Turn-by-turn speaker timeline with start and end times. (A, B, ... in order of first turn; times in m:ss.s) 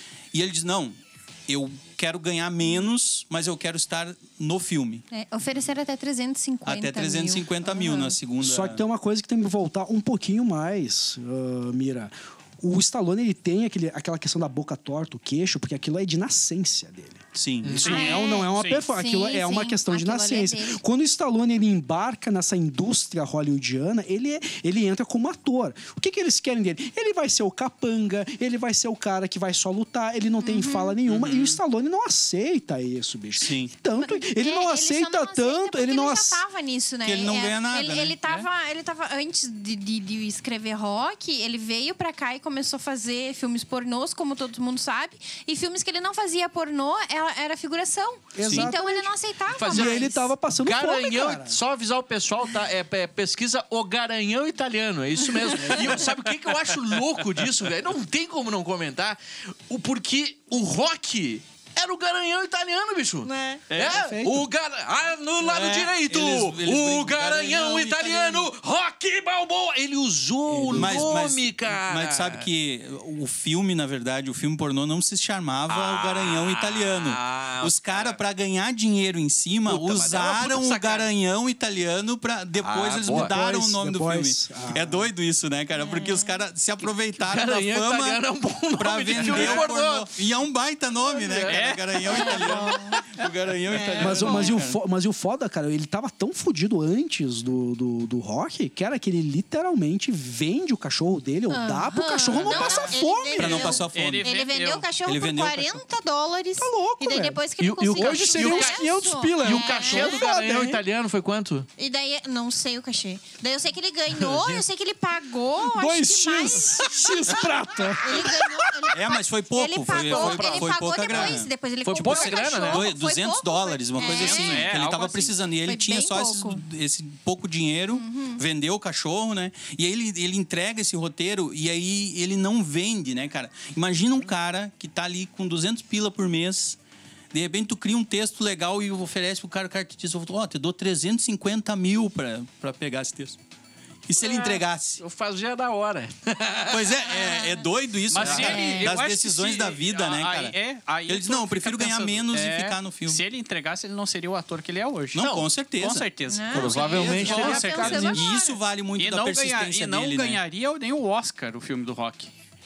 0:00.3-0:05.0 A
0:05.1-0:08.2 B
0:06.6-0:08.8 A
0:08.4-0:36.4 C
0:17.3-0:17.9 A
0:17.6-0:18.0 D
0:17.7-0:18.8 E
0:17.9-0:20.8 B
0:30.4-0:31.0 B
0:31.1-0:31.6 E
0:33.4-0:33.7 A
0:34.0-0:50.3 B
0:37.0-0:38.2 A
0:48.3-0:51.6 C
0:49.5-1:12.4 D
1:03.2-1:03.6 B
1:03.7-1:04.0 E
1:03.8-1:04.5 C
1:05.4-1:08.5 A
1:10.5-1:11.2 C
1:10.7-1:34.8 A
1:15.7-1:18.2 D
1:19.7-1:21.1 D
1:22.6-1:23.3 D
1:23.1-1:25.1 C
1:25.8-1:26.4 B
1:27.2-1:30.1 D
1:31.1-1:31.7 D
1:31.5-1:34.3 E
1:32.1-1:33.0 B
1:34.0-1:43.8 C
1:41.5-1:50.2 B
1:42.4-1:44.3 A
1:43.9-1:44.9 E
1:45.0-1:45.8 A
1:46.6-1:50.8 C
1:47.6-1:48.8 D
1:49.4-1:51.7 D
1:51.8-2:04.8 B
1:54.1-1:54.6 D
1:55.6-1:58.6 C
1:58.9-2:16.8 A
1:59.8-2:01.3 D
2:01.8-2:02.9 D
2:04.0-2:05.4 E
2:05.6-2:06.6 B
2:07.9-2:08.4 B
2:17.3-2:23.4 A
2:24.1-2:25.0 A
2:24.2-2:26.9 D
2:26.7-2:30.5 A
2:28.1-2:38.2 E
2:28.2-2:28.8 D
2:28.5-2:28.9 B
2:31.1-2:33.2 A
2:35.1-2:40.4 A
2:35.2-2:35.5 D
2:36.3-2:38.6 B
2:36.6-2:38.1 D
2:39.0-2:42.3 E